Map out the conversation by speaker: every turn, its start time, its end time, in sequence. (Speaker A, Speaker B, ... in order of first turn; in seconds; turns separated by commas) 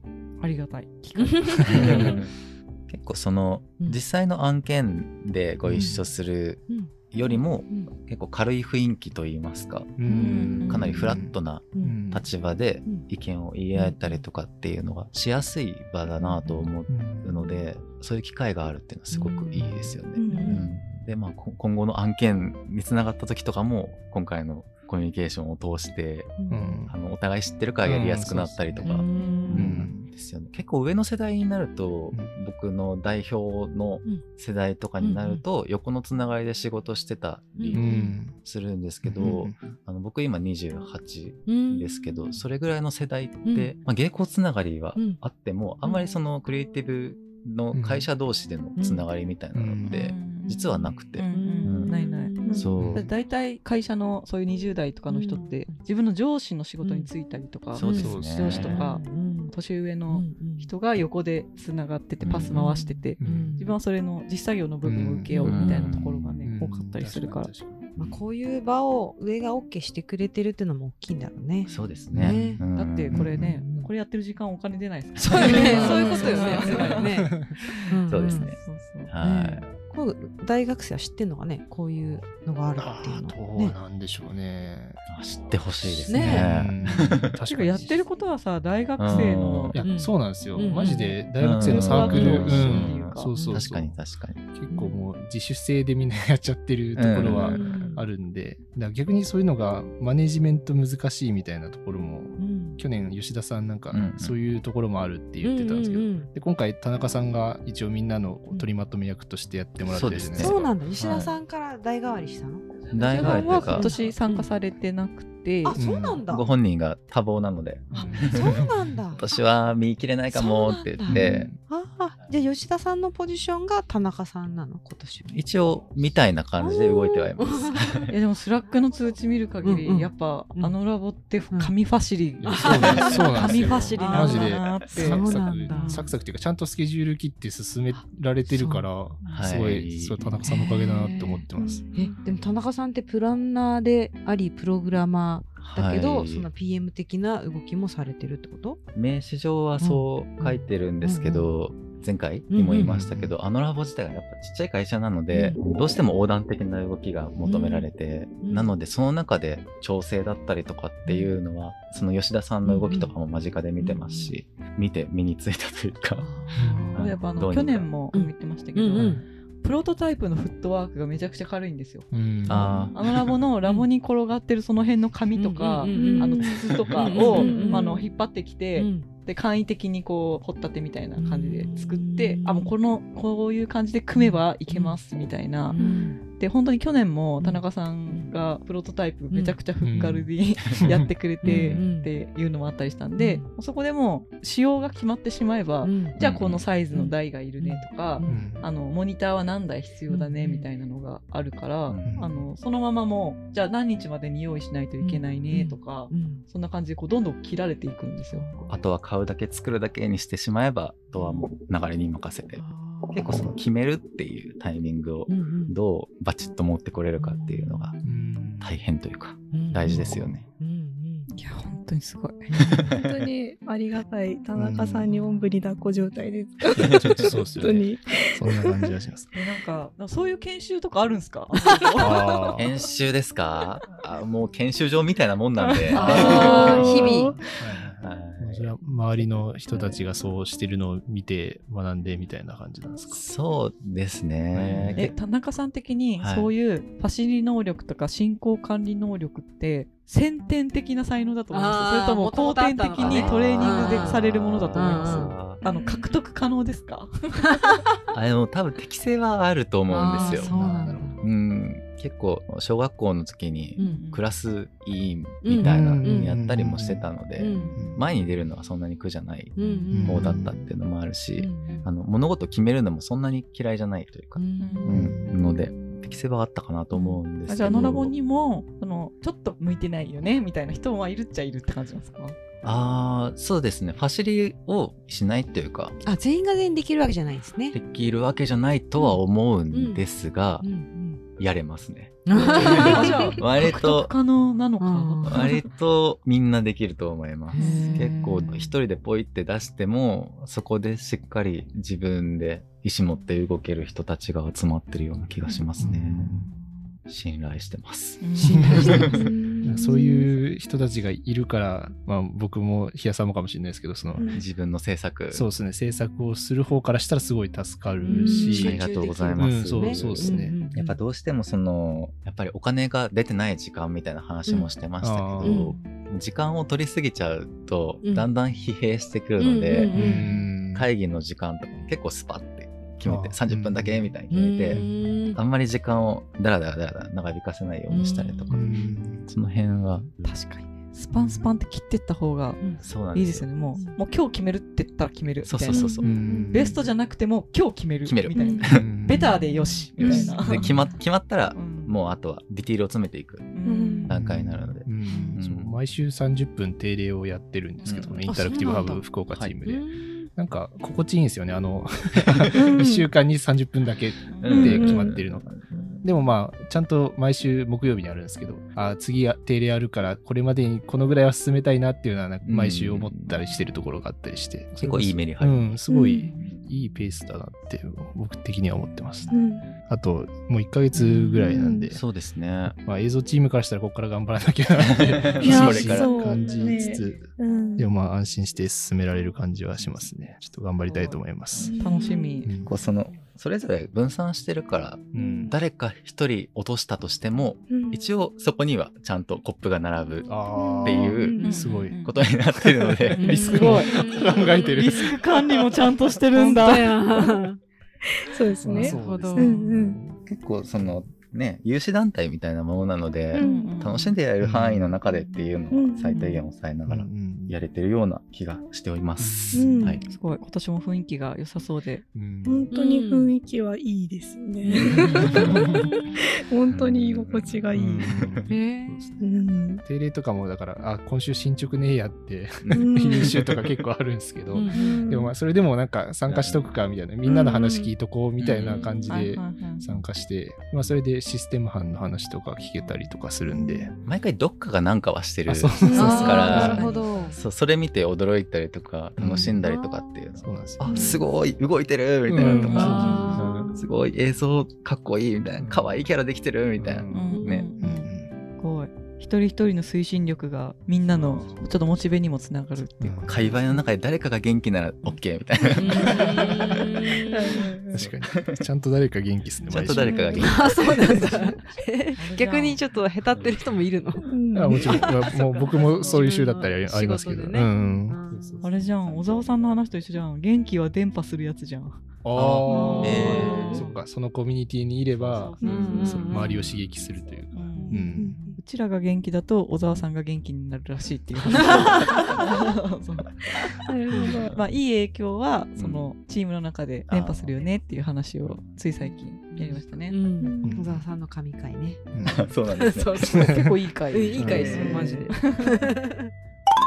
Speaker A: 0.4-2.2, Speaker B: 1.2-2.0, Speaker C: 1.5-2.2, Speaker D: 1.7-2.3, Speaker D: 2.9-10.0, Speaker C: 5.7-6.0, Speaker B: 5.7-6.0, Speaker B: 6.7-7.9, Speaker C: 10.0-12.3, Speaker B: 10.1-11.0, Speaker A: 10.1-10.9, Speaker D: 10.5-26.4, Speaker B: 11.7-12.0, Speaker B: 13.7-14.2, Speaker B: 16.2-16.7, Speaker C: 16.9-17.4, Speaker B: 19.1-19.7, Speaker C: 19.6-19.9, Speaker E: 20.1-20.6, Speaker B: 20.3-20.6, Speaker B: 26.4-26.8, Speaker C: 26.5-26.9, Speaker D: 26.9-52.0, Speaker C: 27.8-29.0, Speaker B: 28.8-29.8, Speaker A: 29.1-29.7, Speaker C: 29.5-30.1, Speaker B: 35.0-35.4, Speaker B: 37.6-38.2, Speaker C: 37.7-38.4, Speaker C: 39.0-39.7, Speaker B: 41.5-42.0, Speaker B: 43.4-43.8, Speaker B: 45.0-45.2, Speaker C: 47.7-48.1, Speaker B: 48.8-49.1, Speaker C: 49.5-50.0, Speaker A: 49.9-67.5, Speaker B: 51.3-52.7, Speaker E: 52.4-52.7, Speaker D: 52.5-53.1, Speaker C: 52.8-53.1, Speaker B: 55.1-55.8, Speaker B: 56.8-57.1, Speaker D: 57.7-58.8, Speaker B: 57.8-59.5, Speaker C: 58.0-58.7, Speaker B: 60.1-60.7, Speaker D: 62.2-62.6, Speaker B: 62.5-63.8, Speaker C: 63.2-63.6, Speaker C: 64.8-65.5, Speaker B: 65.3-65.9, Speaker D: 65.4-66.4, Speaker C: 66.4-67.9, Speaker B: 68.0-72.6, Speaker D: 71.7-73.5, Speaker C: 72.1-72.4, Speaker A: 72.7-79.1, Speaker B: 73.2-73.9, Speaker B: 75.2-78.5, Speaker D: 75.4-76.7, Speaker C: 75.6-77.5, Speaker D: 78.1-79.7, Speaker B: 79.2-83.8, Speaker C: 82.8-85.0, Speaker D: 85.1-87.3, Speaker B: 85.9-86.5, Speaker C: 86.1-88.0, Speaker A: 87.5-89.8, Speaker D: 89.0-89.8, Speaker B: 89.1-91.2, Speaker C: 89.7-94.0, Speaker D: 91.4-94.4, Speaker A: 91.6-93.3, Speaker B: 93.3-93.6, Speaker C: 94.5-111.2, Speaker B: 94.7-95.0, Speaker D: 97.0-97.7, Speaker B: 97.2-98.1, Speaker B: 102.4-102.8, Speaker D: 103.9-104.4, Speaker B: 105.4-106.3, Speaker D: 109.8-111.4, Speaker B: 110.3-114.5, Speaker D: 112.9-114.0, Speaker A: 113.0-115.8, Speaker B: 115.6-116.5, Speaker C: 115.8-116.2, Speaker D: 116.3-121.5, Speaker C: 117.9-118.9, Speaker B: 118.2-119.2, Speaker B: 120.3-125.4, Speaker C: 121.1-121.6, Speaker D: 125.3-128.1, Speaker B: 126.6-128.0, Speaker A: 128.1-136.1, Speaker B: 129.6-130.8, Speaker C: 132.4-141.9, Speaker B: 132.4-136.1, Speaker B: 137.9-138.9, Speaker D: 139.3-140.4, Speaker B: 140.4-148.8, Speaker E: 141.6-142.1, Speaker D: 145.6-146.5, Speaker D: 148.9-166.3, Speaker B: 149.8-151.5, Speaker B: 152.5-153.0, Speaker C: 152.8-153.3, Speaker B: 155.3-155.6, Speaker B: 157.4-157.9, Speaker B: 158.4-158.7, Speaker B: 161.1-161.3, Speaker B: 162.7-163.1, Speaker B: 163.8-164.4, Speaker B: 166.2-167.2, Speaker C: 166.5-167.0, Speaker D: 166.9-167.9, Speaker A: 166.9-208.5, Speaker B: 168.1-169.2, Speaker C: 169.0-169.2, Speaker C: 172.1-172.9, Speaker D: 172.5-173.0, Speaker B: 172.6-172.9, Speaker B: 175.3-178.1, Speaker E: 175.9-176.6, Speaker D: 176.7-177.1, Speaker E: 177.2-178.0, Speaker B: 178.8-179.1, Speaker B: 181.2-182.8, Speaker B: 184.1-185.0, Speaker B: 185.7-186.2, Speaker E: 185.8-186.1, Speaker B: 187.4-188.3, Speaker B: 189.3-190.2, Speaker C: 189.8-191.8, Speaker B: 191.4-192.1, Speaker D: 191.5-191.8, Speaker B: 193.2-193.5, Speaker B: 195.8-196.2, Speaker D: 196.2-196.7, Speaker B: 196.9-198.5, Speaker C: 198.2-198.7, Speaker B: 200.1-200.7, Speaker D: 201.9-202.5, Speaker C: 202.0-202.3, Speaker B: 205.0-206.4, Speaker B: 208.3-208.7, Speaker D: 208.7-218.0, Speaker B: 212.6-213.5, Speaker B: 215.3-215.8, Speaker B: 217.2-218.3, Speaker C: 218.0-218.8, Speaker D: 218.6-220.5, Speaker B: 219.5-221.3, Speaker C: 219.8-220.4, Speaker A: 221.3-222.8, Speaker B: 222.5-222.9, Speaker D: 222.5-223.2, Speaker E: 222.9-229.0, Speaker C: 224.6-225.1, Speaker C: 226.8-229.3, Speaker D: 226.8-227.2, Speaker A: 229.3-232.2, Speaker C: 232.0-232.7, Speaker D: 232.6-237.2, Speaker E: 235.8-237.4, Speaker B: 235.9-237.4, Speaker C: 237.6-243.2, Speaker D: 237.9-239.9, Speaker D: 243.1-245.1, Speaker C: 244.5-245.1, Speaker A: 245.0-257.7, Speaker D: 246.2-246.5, Speaker B: 251.5-256.1, Speaker D: 252.9-255.6, Speaker B: 257.5-257.8, Speaker D: 258.1-260.6, Speaker B: 259.9-261.2, Speaker C: 260.2-261.2, Speaker D: 261.2-269.6, Speaker B: 263.8-264.0, Speaker A: 263.8-264.2, Speaker B: 265.4-266.4, Speaker C: 265.6-267.1, Speaker B: 267.4-267.8, Speaker C: 267.7-268.0, Speaker B: 269.6-270.6, Speaker C: 269.9-270.5, Speaker D: 270.1-278.1, Speaker B: 271.4-271.9, Speaker B: 274.4-275.3, Speaker A: 274.6-275.0, Speaker C: 274.9-275.3, Speaker B: 276.9-277.2, Speaker A: 277.1-282.4, Speaker D: 282.6-286.0, Speaker B: 286.0-287.8, Speaker D: 287.7-290.7, Speaker B: 289.7-290.0, Speaker B: 290.6-291.2, Speaker D: 291.4-294.1, Speaker B: 292.3-293.4, Speaker A: 292.4-295.6, Speaker B: 294.8-295.6, Speaker D: 295.2-306.5, Speaker B: 297.5-298.7, Speaker A: 297.6-298.5, Speaker C: 305.8-306.5, Speaker D: 307.1-309.3, Speaker A: 308.2-309.0, Speaker C: 308.4-309.1, Speaker B: 308.6-308.9, Speaker E: 308.9-310.4, Speaker C: 309.6-314.3, Speaker E: 314.2-314.5, Speaker D: 314.3-315.5, Speaker C: 315.3-318.8, Speaker B: 318.1-321.0, Speaker E: 318.1-318.6, Speaker D: 318.5-338.7, Speaker C: 319.4-320.6, Speaker C: 325.0-325.7, Speaker B: 325.4-325.8, Speaker B: 328.0-328.3, Speaker B: 329.4-330.3, Speaker C: 329.9-330.9, Speaker C: 333.1-334.1, Speaker B: 334.3-335.4, Speaker B: 337.9-338.7, Speaker C: 338.5-339.3, Speaker D: 339.3-340.1, Speaker B: 340.2-340.7, Speaker A: 340.9-342.6, Speaker C: 341.1-341.6, Speaker D: 342.8-343.5, Speaker A: 343.1-345.9, Speaker D: 345.4-346.1, Speaker E: 345.7-346.7, Speaker C: 346.0-346.8, Speaker A: 346.5-350.7, Speaker D: 348.1-348.9, Speaker E: 348.4-348.7, Speaker C: 348.7-349.3, Speaker B: 349.3-350.9, Speaker D: 350.0-353.5, Speaker E: 350.0-350.6, Speaker C: 350.5-350.8, Speaker A: 351.5-352.0, Speaker A: 353.5-354.1, Speaker E: 353.6-354.1, Speaker D: 354.1-355.8, Speaker C: 354.1-365.5, Speaker A: 355.1-355.4, Speaker D: 357.8-358.2, Speaker B: 358.2-359.0, Speaker B: 359.6-360.3, Speaker E: 362.6-363.1, Speaker A: 364.3-364.9, Speaker D: 364.4-366.0, Speaker E: 364.6-365.1, Speaker C: 366.0-379.3, Speaker D: 372.4-373.4, Speaker D: 374.7-376.7, Speaker E: 375.9-376.3, Speaker E: 379.3-379.7, Speaker C: 379.9-382.0, Speaker B: 380.9-381.4, Speaker E: 381.5-381.9, Speaker D: 381.9-382.8, Speaker C: 382.7-391.7, Speaker D: 384.8-386.3, Speaker E: 385.4-387.9, Speaker E: 391.6-392.5, Speaker A: 391.8-392.5, Speaker C: 392.4-392.7, Speaker D: 392.6-401.5, Speaker C: 395.1-395.6, Speaker E: 395.1-395.5, Speaker E: 397.7-398.0, Speaker C: 400.3-402.0, Speaker E: 400.6-401.6, Speaker B: 401.3-401.6, Speaker A: 401.4-402.2, Speaker D: 402.0-403.8, Speaker C: 402.6-405.4, Speaker B: 403.1-404.7, Speaker A: 403.2-403.9, Speaker A: 404.7-407.1, Speaker B: 406.3-407.6, Speaker E: 408.1-410.0, Speaker C: 408.6-410.2, Speaker B: 408.8-409.7, Speaker D: 410.2-420.0, Speaker E: 413.3-413.8, Speaker A: 413.4-414.1, Speaker C: 414.4-415.0, Speaker E: 415.7-416.4, Speaker B: 416.1-416.4, Speaker C: 416.9-417.6, Speaker C: 419.2-419.9, Speaker E: 419.5-420.0, Speaker A: 420.1-422.1, Speaker C: 422.1-422.7, Speaker E: 422.4-428.3, Speaker B: 422.7-423.3, Speaker C: 424.8-425.9, Speaker D: 426.7-427.8, Speaker C: 427.7-429.2, Speaker B: 428.5-429.1, Speaker E: 429.2-429.8, Speaker C: 429.8-443.9, Speaker D: 432.6-433.6, Speaker E: 432.7-433.4, Speaker B: 434.5-434.9, Speaker E: 434.7-435.3, Speaker D: 436.3-436.6, Speaker E: 437.3-437.9, Speaker D: 438.4-438.9, Speaker B: 438.6-439.3, Speaker A: 439.1-439.8, Speaker E: 443.6-443.9, Speaker D: 444.0-457.7, Speaker C: 445.5-446.8, Speaker E: 445.8-446.8, Speaker B: 445.9-447.4, Speaker A: 446.0-447.3, Speaker C: 449.2-449.6, Speaker B: 449.6-450.3, Speaker C: 450.4-451.2, Speaker C: 452.3-453.8, Speaker E: 452.4-453.7, Speaker B: 452.4-453.7, Speaker A: 452.8-453.4, Speaker C: 455.6-456.1, Speaker C: 456.8-458.3, Speaker A: 457.1-463.3, Speaker B: 457.3-457.7, Speaker C: 461.1-461.6, Speaker C: 463.0-463.6, Speaker D: 463.3-466.4, Speaker B: 465.7-467.7, Speaker E: 466.1-466.7, Speaker E: 467.3-468.1, Speaker C: 467.9-470.4, Speaker D: 468.0-468.6, Speaker D: 469.7-471.4, Speaker E: 469.9-471.5, Speaker B: 470.3-478.8, Speaker A: 472.2-472.8, Speaker D: 473.3-473.6, Speaker E: 474.2-475.1, Speaker C: 474.5-478.7, Speaker A: 478.6-482.0, Speaker D: 479.0-479.8, Speaker C: 482.2-488.4, Speaker D: 482.4-483.9, Speaker E: 482.7-483.4, Speaker B: 482.7-484.0, Speaker A: 482.9-483.5, Speaker D: 485.2-487.0, Speaker E: 485.6-486.2, Speaker B: 485.6-486.7, Speaker A: 486.4-486.7, Speaker A: 487.5-493.4, Speaker E: 487.8-488.6, Speaker E: 493.9-494.6, Speaker A: 494.2-500.2, Speaker D: 495.8-496.1, Speaker D: 497.1-497.7, Speaker D: 498.5-498.8, Speaker B: 499.5-502.0, Speaker E: 500.4-500.9, Speaker C: 500.6-501.1, Speaker C: 502.1-502.5, Speaker D: 502.2-503.3, Speaker B: 502.7-506.3, Speaker C: 503.2-503.7, Speaker A: 503.3-505.9, Speaker D: 504.3-505.3, Speaker C: 504.4-504.9